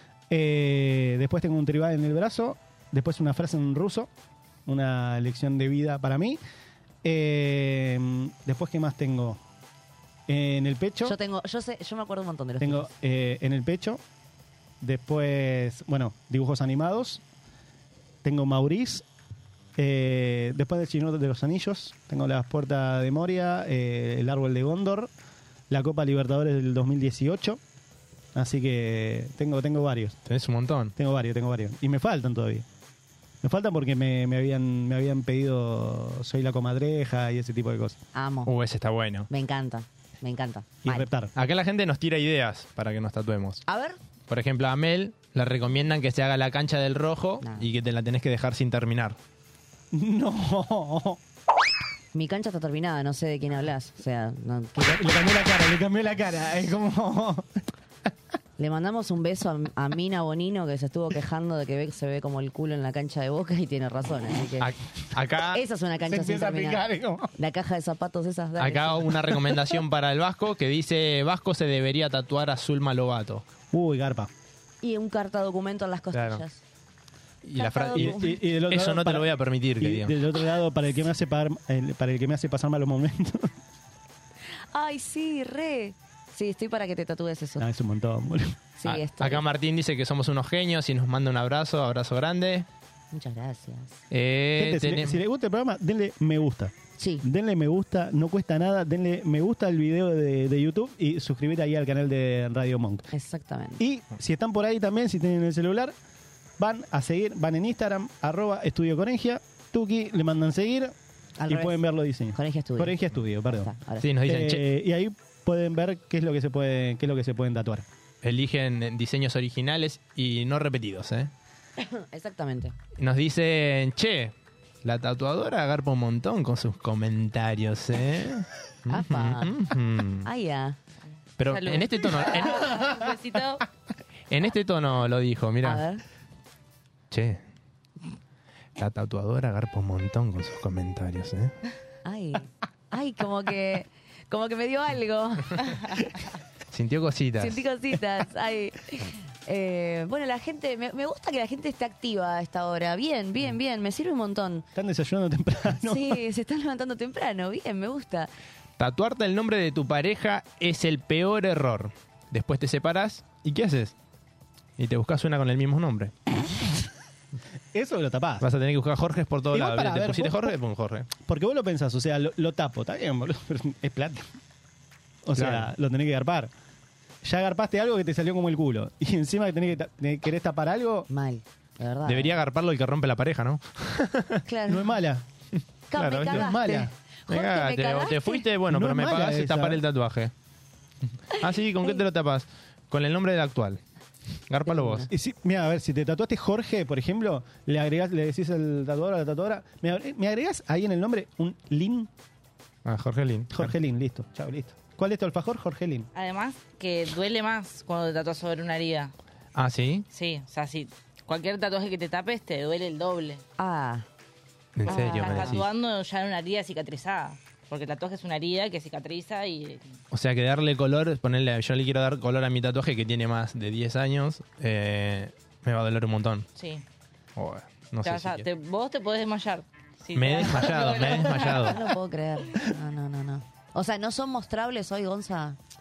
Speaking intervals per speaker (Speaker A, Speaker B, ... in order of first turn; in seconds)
Speaker A: 0.3-4.1, 4.7-6.4, 7.0-9.4, 10.3-11.2, 12.6-14.0, 14.8-17.2, 18.2-19.1, 19.8-25.1, 25.7-27.6, 28.4-30.2, 31.0-32.6, 33.4-38.0, 40.8-41.3, 49.9-51.2, 54.8-57.6, 66.1-67.3, 73.7-74.3, 78.0-79.3, 79.8-83.5, 87.6-88.6, 94.6-103.1, 103.8-105.9, 106.6-111.0, 111.5-113.7, 114.2-117.9, 154.8-156.2, 167.7-168.5, 169.5-170.6, 171.2-174.2, 175.2-176.5, 177.2-181.1, 184.7-185.2, 186.2-186.9, 188.7-189.8, 195.1-202.1, 203.5-206.1
Speaker B: 11.0-12.9, 38.1-38.5, 39.3-41.1, 43.7-44.0, 47.4-47.7, 52.1-55.1, 58.6-64.7, 65.5-66.8, 67.4-69.3, 74.8-76.6, 77.6-78.4, 84.7-87.7, 88.8-89.4, 93.1-94.0, 97.0-97.2, 103.1-103.8, 111.4-111.8, 112.3-114.1, 121.8-122.8, 128.9-129.6, 130.2-130.8, 135.6-136.0, 142.1-145.6, 147.4-154.7, 155.8-158.3, 181.1-182.3, 184.5-184.9, 185.9-188.5, 191.3-192.0, 194.7-195.1, 213.6-214.1, 214.9-215.6, 231.5-235.6
Speaker C: 30.3-30.9, 38.5-39.3, 41.4-43.6, 44.3-49.2, 64.6-65.6, 68.6-73.5, 76.1-76.4, 77.4-80.1, 88.8-92.7, 94.1-95.2, 114.0-114.6, 118.2-121.3, 123.0-130.3, 131.4-132.7, 134.3-135.8, 137.1-137.4, 138.8-141.6, 146.7-147.7, 158.8-163.9, 164.8-166.1, 168.4-171.1, 175.3-175.7, 182.1-184.4, 185.9-186.5, 187.3-190.3, 191.3-193.8, 194.5-195.1, 202.8-203.7, 209.6-210.1, 214.8-215.7, 220.1-226.5, 227.4-228.5, 230.2-231.8
Speaker D: 131.1-133.6, 206.2-209.1, 210.1-213.4, 214.9-220.0, 226.6-226.8, 228.0-231.9